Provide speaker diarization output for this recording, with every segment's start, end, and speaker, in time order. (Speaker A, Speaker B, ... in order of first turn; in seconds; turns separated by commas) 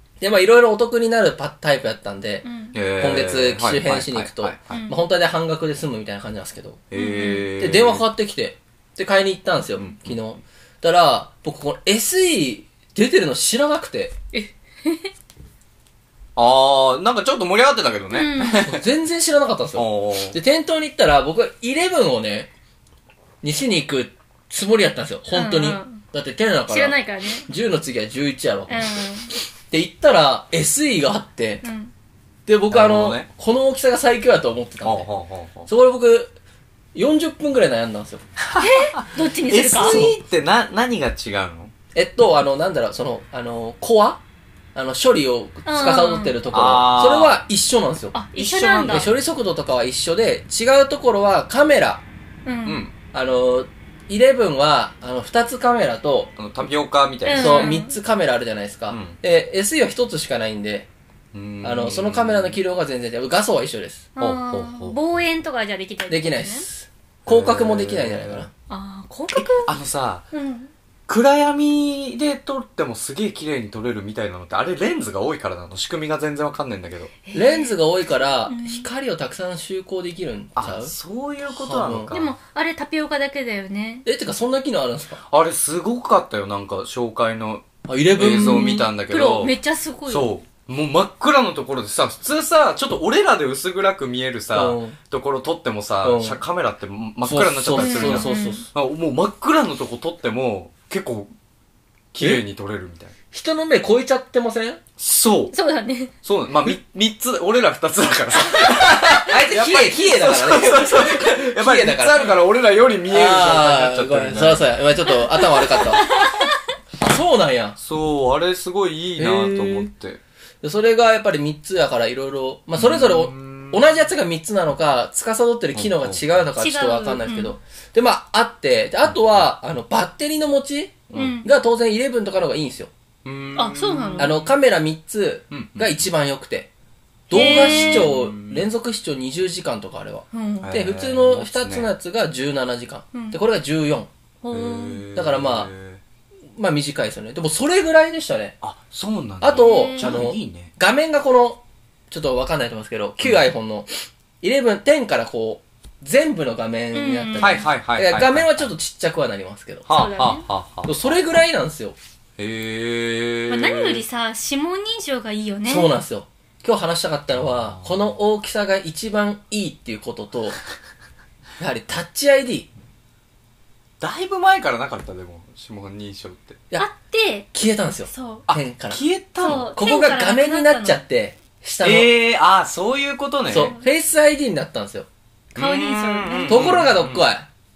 Speaker A: 0.2-6.8, Speaker B: 2.4-2.7, Speaker C: 2.7-4.8, Speaker B: 4.7-5.0, Speaker C: 6.9-8.0, Speaker B: 6.9-7.5, Speaker A: 7.6-14.2, Speaker C: 9.8-10.2, Speaker B: 14.3-15.1, Speaker C: 16.4-18.8, Speaker B: 18.1-18.7, Speaker A: 18.6-22.5, Speaker C: 19.7-20.4, Speaker A: 23.4-28.9, Speaker B: 25.3-26.0, Speaker B: 26.7-27.5, Speaker B: 28.7-29.3, Speaker A: 29.7-31.6, Speaker B: 31.6-31.9, Speaker A: 32.5-35.1, Speaker C: 32.7-33.3, Speaker C: 34.8-35.7, Speaker A: 35.7-36.3, Speaker A: 36.9-38.2, Speaker C: 38.4-41.7, Speaker B: 38.6-40.0, Speaker A: 39.8-40.2, Speaker A: 41.9-44.2, Speaker A: 44.7-48.2, Speaker B: 45.6-46.4, Speaker C: 46.5-47.4, Speaker B: 48.1-49.1, Speaker C: 48.4-49.1, Speaker A: 48.9-52.0, Speaker B: 52.4-52.9, Speaker C: 52.6-52.9, Speaker A: 53.1-56.3, Speaker C: 56.4-57.8, Speaker B: 57.2-57.9, Speaker A: 57.4-60.9, Speaker C: 58.9-59.2, Speaker C: 61.3-62.6, Speaker A: 61.6-64.0, Speaker B: 64.2-66.7, Speaker C: 64.2-65.0, Speaker A: 66.1-68.5, Speaker C: 67.2-68.5, Speaker B: 68.7-69.7, Speaker C: 69.3-70.2, Speaker B: 70.3-70.7, Speaker C: 71.1-77.1, Speaker B: 77.2-78.9, Speaker A: 77.3-80.9, Speaker C: 80.5-82.3, Speaker A: 81.5-82.1, Speaker B: 82.1-84.0, Speaker A: 84.0-85.2, Speaker C: 85.3-89.5, Speaker A: 87.9-88.9, Speaker B: 88.2-90.3, Speaker C: 90.1-101.3, Speaker A: 94.5-95.0, Speaker A: 96.0-96.4, Speaker A: 97.2-98.6, Speaker B: 97.8-98.6, Speaker C: 102.1-103.1, Speaker A: 102.2-102.4, Speaker A: 103.3-104.8, Speaker C: 105.0-105.5, Speaker B: 105.5-106.1, Speaker C: 106.2-114.8, Speaker A: 108.9-112.4, Speaker A: 113.1-116.1, Speaker B: 115.2-116.5, Speaker A: 117.0-117.8, Speaker C: 117.8-120.2, Speaker A: 119.2-119.9, Speaker A: 120.6-132.9, Speaker C: 122.8-123.9, Speaker C: 125.7-126.4, Speaker B: 126.6-127.5, Speaker C: 129.1-129.5, Speaker C: 131.1-131.4, Speaker B: 131.1-131.5, Speaker C: 133.2-134.5, Speaker B: 133.6-134.4, Speaker A: 134.2-136.7, Speaker C: 135.5-135.9, Speaker A: 137.3-144.1, Speaker B: 137.3-138.1, Speaker C: 137.3-138.7, Speaker B: 140.3-140.7, Speaker C: 140.6-141.9, Speaker B: 143.1-143.4, Speaker B: 144.4-145.0, Speaker C: 144.5-146.0, Speaker A: 145.1-145.7, Speaker A: 146.6-148.6, Speaker C: 148.6-150.7, Speaker A: 149.4-153.9, Speaker B: 149.6-150.2, Speaker A: 154.4-159.9, Speaker B: 156.9-157.7, Speaker C: 157.4-158.7, Speaker C: 159.9-161.1, Speaker B: 159.9-160.4, Speaker A: 160.8-161.9, Speaker C: 162.4-164.0, Speaker B: 163.5-165.9, Speaker A: 165.6-170.6, Speaker C: 167.3-168.2, Speaker A: 171.6-172.7, Speaker C: 174.0-176.6, Speaker B: 176.8-178.5, Speaker A: 177.5-182.1, Speaker C: 178.5-179.7, Speaker B: 179.4-181.0, Speaker C: 181.8-183.7, Speaker A: 183.5-185.1, Speaker B: 183.5-183.8, Speaker B: 185.5-186.7, Speaker C: 185.5-187.2, Speaker A: 186.5-187.5